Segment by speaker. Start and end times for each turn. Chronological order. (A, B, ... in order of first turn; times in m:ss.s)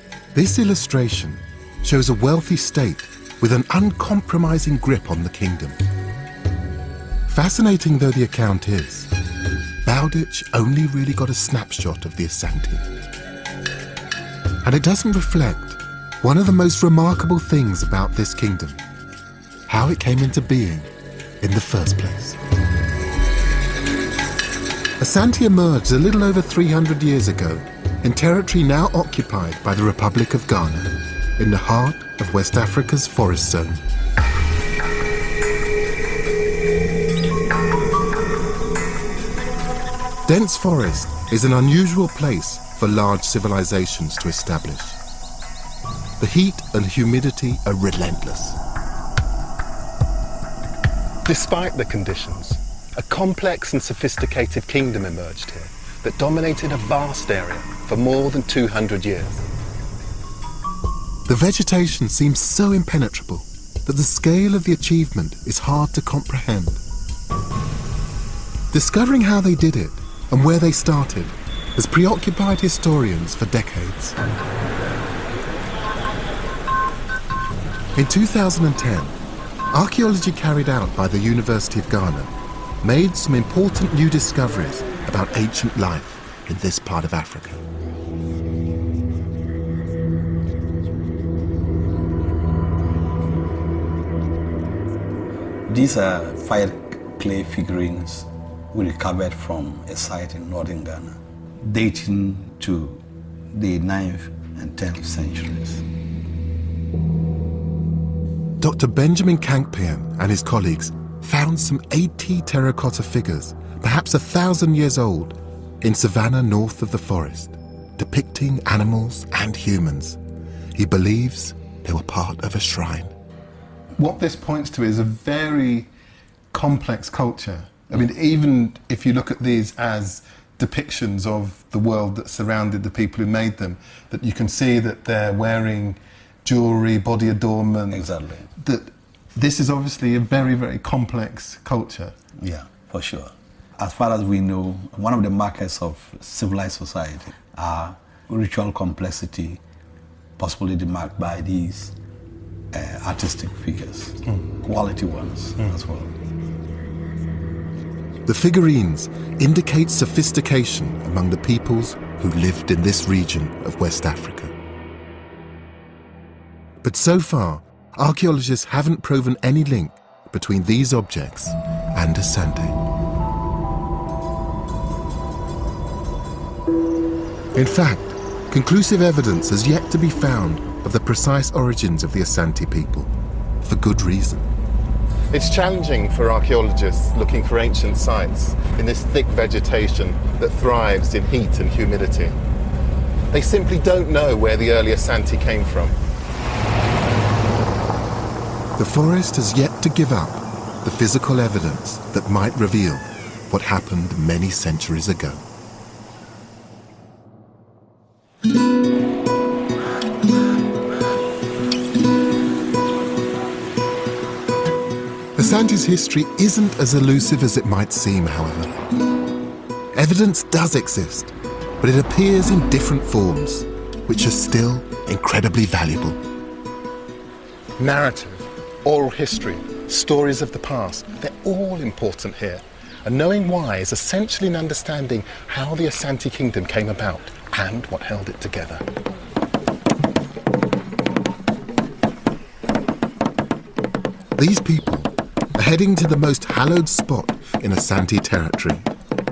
0:00.3-0:05.8 A
0:07.3-0:09.1 A
0:09.8-0:12.9 A
0:14.6-0:18.8 A
0:19.7-0:20.9 A
0:21.4-0:22.4 A
0:25.0-0:33.8 A
0:40.2-0:45.0 A
0:46.2-0:48.6 A
0:51.2-0:59.4 B
1:01.3-1:06.8 A
1:08.7-1:14.2 A
1:18.0-1:19.2 A
1:19.7-1:27.6 A
1:35.7-1:45.8 C
1:48.6-2:00.2 A
2:00.7-2:03.1 A
2:04.0-2:05.9 B
2:06.5-2:22.2 B
2:17.9-2:18.5 C
2:22.4-2:29.6 C
2:30.4-2:32.0 C
2:32.7-2:36.2 C
2:38.3-2:44.6 A
2:46.8-2:52.8 A
2:57.6-3:03.1 A
3:03.6-3:04.5 A
3:05.3-3:12.4 B
3:13.3-3:16.0 B
3:18.8-3:25.4 A
3:35.4-3:38.8 A
3:40.0-3:46.2 A
3:47.8-3:58.8 B
4:04.4-4:08.9 A